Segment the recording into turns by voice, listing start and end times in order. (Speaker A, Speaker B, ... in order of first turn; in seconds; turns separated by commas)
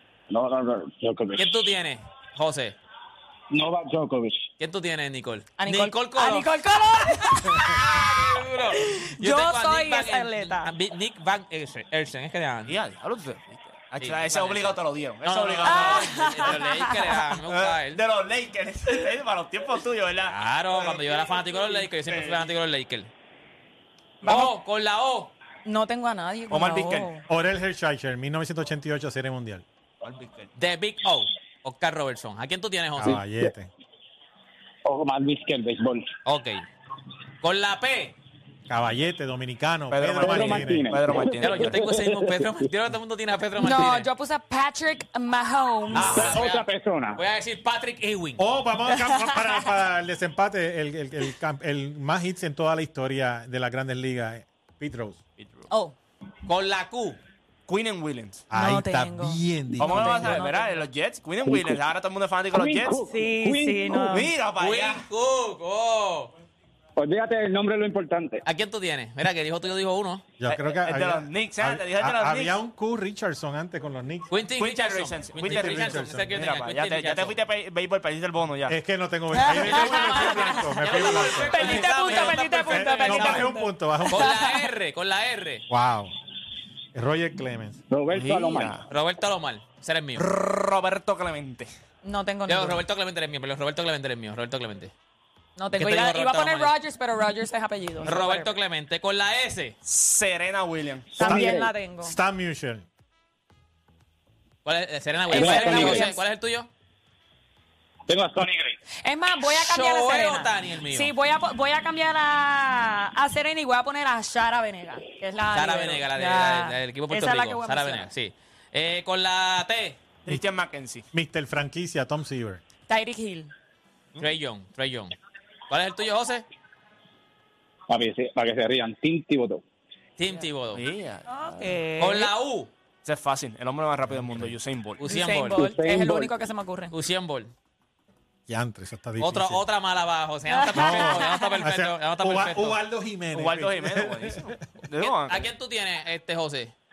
Speaker A: 0.3-1.4, Speaker B: 1.4-2.8, Speaker A: 3.5-4.5, Speaker B: 4.6-6.5, Speaker C: 5.6-7.9, Speaker B: 7.2-12.8, Speaker C: 8.8-10.7, Speaker D: 12.7-16.8, Speaker B: 14.0-18.0, Speaker C: 15.6-17.0, Speaker D: 17.4-22.4, Speaker B: 20.3-23.1, Speaker C: 24.2-24.5, Speaker B: 24.2-25.3, Speaker C: 25.6-27.2, Speaker D: 26.5-27.1, Speaker E: 27.3-29.6, Speaker D: 30.0-30.5, Speaker B: 30.6-33.2, Speaker E: 33.0-33.7, Speaker A: 33.1-33.5, Speaker A: 34.8-36.1, Speaker B: 36.2-36.6, Speaker B: 37.4-38.1, Speaker E: 38.7-40.9, Speaker D: 39.9-41.9, Speaker A: 40.2-42.6, Speaker B: 41.4-44.1, Speaker C: 43.6-46.4, Speaker B: 45.9-48.4, Speaker A: 46.1-47.2, Speaker E: 48.4-55.2, Speaker C: 48.9-49.6, Speaker D: 55.4-55.6, Speaker C: 55.7-55.9, Speaker B: 56.5-57.2, Speaker D: 57.7-58.5, Speaker E: 58.5-60.4, Speaker C: 58.5-60.9, Speaker D: 59.8-63.0, Speaker A: 61.4-61.8, Speaker A: 62.5-64.1, Speaker C: 63.0-64.3, Speaker D: 64.0-65.0, Speaker B: 64.6-66.3, Speaker A: 67.0-68.4, Speaker B: 68.4-70.2, Speaker E: 70.4-74.3, Speaker D: 70.5-72.6, Speaker B: 74.3-77.4, Speaker D: 74.6-78.8, Speaker E: 75.4-76.4, Speaker E: 78.7-84.4, Speaker C: 79.3-84.6, Speaker D: 79.5-80.6, Speaker B: 80.8-83.5, Speaker B: 84.1-85.7, Speaker E: 85.7-86.1, Speaker E: 86.9-87.8, Speaker A: 87.9-88.8, Speaker D: 88.1-88.9, Speaker B: 88.9-90.2, Speaker D: 90.2-91.7, Speaker C: 92.0-92.8, Speaker B: 92.5-94.9, Speaker C: 95.6-98.5, Speaker B: 95.7-96.7, Speaker B: 98.0-99.8, Speaker D: 99.8-101.2, Speaker C: 101.1-102.2, Speaker A: 101.2-101.7, Speaker E: 101.2-102.8, Speaker B: 104.6-106.7, Speaker C: 105.3-106.2, Speaker A: 105.3-106.0, Speaker A: 108.1-108.7, Speaker C: 109.0-118.1, Speaker B: 109.7-111.1, Speaker B: 115.5-120.0, Speaker D: 120.2-121.1, Speaker E: 121.1-122.6, Speaker C: 122.9-123.5, Speaker B: 124.2-125.1, Speaker B: 125.7-126.4, Speaker A: 127.9-129.6, Speaker B: 130.2-130.8, Speaker D: 130.2-131.8, Speaker C: 131.3-132.3, Speaker B: 132.0-132.7, Speaker D: 133.0-135.0, Speaker E: 134.1-134.5, Speaker B: 135.0-135.7, Speaker C: 135.0-136.9, Speaker A: 135.6-136.3, Speaker B: 136.9-137.5, Speaker E: 138.5-139.6, Speaker B: 139.2-142.8, Speaker C: 140.5-141.6, Speaker E: 140.8-144.5, Speaker D: 143.3-145.5, Speaker B: 145.0-146.7